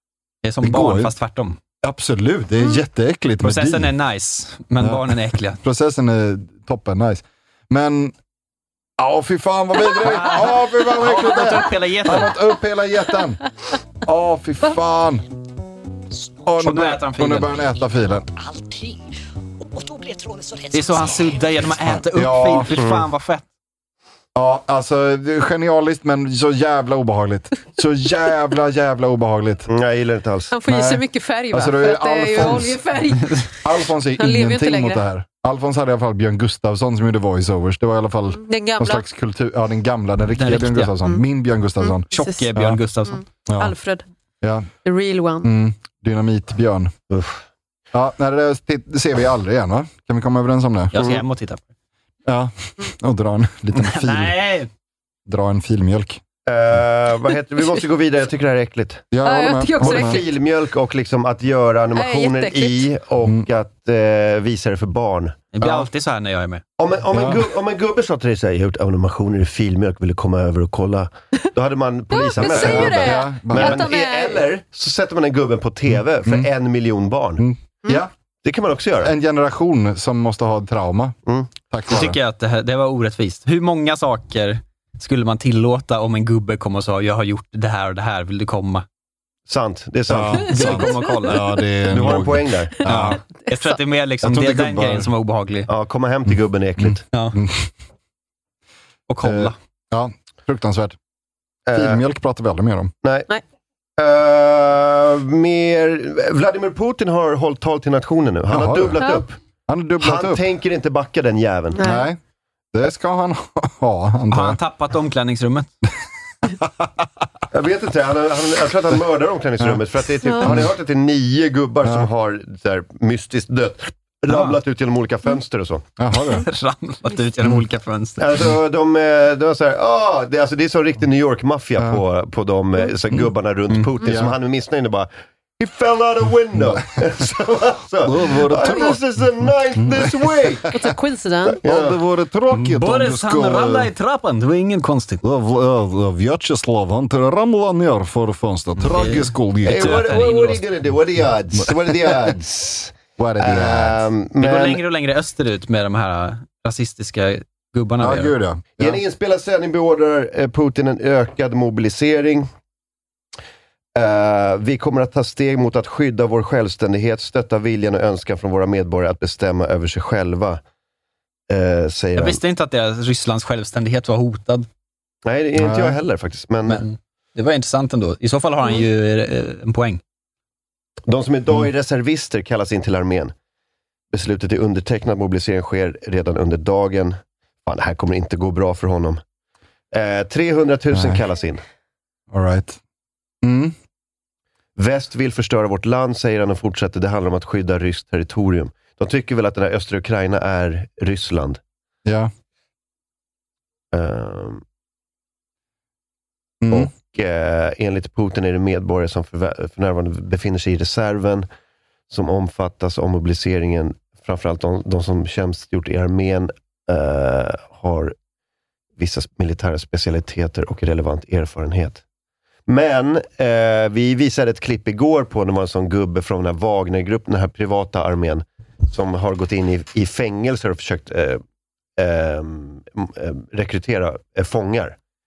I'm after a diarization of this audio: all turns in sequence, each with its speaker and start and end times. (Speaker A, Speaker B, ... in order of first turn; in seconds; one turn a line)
Speaker A: 0.4-1.6
Speaker B: 0.6-1.1
Speaker B: 1.8-3.9
Speaker A: 3.4-5.6
Speaker B: 4.8-8.1
Speaker B: 9.0-13.4
Speaker A: 10.0-12.4
Speaker B: 14.0-15.2
Speaker B: 16.4-18.2
Speaker A: 16.6-17.6
Speaker C: 18.4-19.1
Speaker C: 19.6-21.7
Speaker A: 20.7-23.4
Speaker B: 21.8-22.8
Speaker D: 22.7-23.1
Speaker B: 24.3-29.7
Speaker D: 29.7-30.5
Speaker E: 30.5-33.5
Speaker B: 30.7-32.8
Speaker B: 33.6-42.8
Speaker E: 34.2-35.0
Speaker E: 38.4-39.0
Speaker A: 40.4-40.9
Speaker E: 41.8-42.5
Speaker A: 42.1-43.2
Speaker E: 43.1-44.0
Speaker B: 43.5-43.7
Speaker B: 44.4-44.7
Speaker E: 44.9-45.5
Speaker B: 45.4-46.9
Speaker D: 47.1-47.4
Speaker B: 47.9-50.9
Speaker A: 50.9-51.6
Speaker D: 51.0-51.2
Speaker B: 52.3-54.4
Speaker A: 53.7-54.7
Speaker B: 55.3-56.2
Speaker D: 56.5-59.1
Speaker B: 59.1-60.2
Speaker E: 59.2-60.3
Speaker D: 59.8-65.4
Speaker E: 61.9-62.9
Speaker A: 65.5-66.6
Speaker B: 65.6-65.9
Speaker D: 66.8-77.4
Speaker B: 67.1-67.5
Speaker E: 72.1-74.4
Speaker B: 72.3-73.9
Speaker B: 75.9-76.5
Speaker B: 77.4-78.1
Speaker D: 78.4-79.1
Speaker B: 79.0-81.2
Speaker D: 81.3-81.5
Speaker B: 81.7-82.2
Speaker A: 81.9-88.8
Speaker D: 89.5-90.9
Speaker B: 90.1-93.2
Speaker A: 90.5-91.5
Speaker E: 90.6-91.3
Speaker D: 91.9-92.8
Speaker A: 92.8-95.7
Speaker E: 93.5-93.8
Speaker B: 94.2-95.1
Speaker D: 95.7-97.0
Speaker B: 96.3-97.7
Speaker A: 97.1-97.4
Speaker A: 99.1-99.5
Speaker B: 99.2-101.0
Speaker D: 101.7-102.0
Speaker B: 101.7-102.9
Speaker D: 104.0-109.4
Speaker B: 108.5-109.1
Speaker B: 109.7-110.4
Speaker D: 110.0-111.8
Speaker E: 111.8-112.1
Speaker B: 111.8-112.2
Speaker B: 112.7-114.6
Speaker A: 114.3-115.7
Speaker D: 117.5-125.8
Speaker E: 120.3-120.6
Speaker B: 120.4-120.7
Speaker A: 124.3-124.6
Speaker B: 126.0-126.5
Speaker A: 126.5-128.3
Speaker D: 128.2-140.7
Speaker B: 134.0-134.3
Speaker B: 138.0-139.0
Speaker B: 139.8-140.4
Speaker E: 140.7-141.6
Speaker D: 141.6-142.0
Speaker B: 141.6-143.9
Speaker A: 142.5-145.2
Speaker B: 145.2-150.2
Speaker A: 148.8-150.6
Speaker D: 149.6-154.8
Speaker B: 151.6-152.4
Speaker B: 153.2-154.1
Speaker A: 154.4-158.3
Speaker B: 158.0-159.0
Speaker D: 158.8-162.5
Speaker D: 163.9-170.6
Speaker D: 171.5-172.4
Speaker A: 172.2-174.7
Speaker D: 175.2-176.8
Speaker B: 175.6-176.0
Speaker A: 176.7-180.0
Speaker D: 181.1-183.3
Speaker D: 184.1-189.2
Speaker D: 189.9-191.6
Speaker B: 190.9-191.2
Speaker B: 192.3-192.8
Speaker B: 193.4-193.7
Speaker D: 194.8-201.6
Speaker B: 202.1-202.3
Speaker D: 203.9-204.6
Speaker B: 206.6-206.9
Speaker D: 206.7-211.4
Speaker D: 212.1-218.1
Speaker D: 219.0-222.0
Speaker D: 222.7-231.4
Speaker D: 232.0-235.0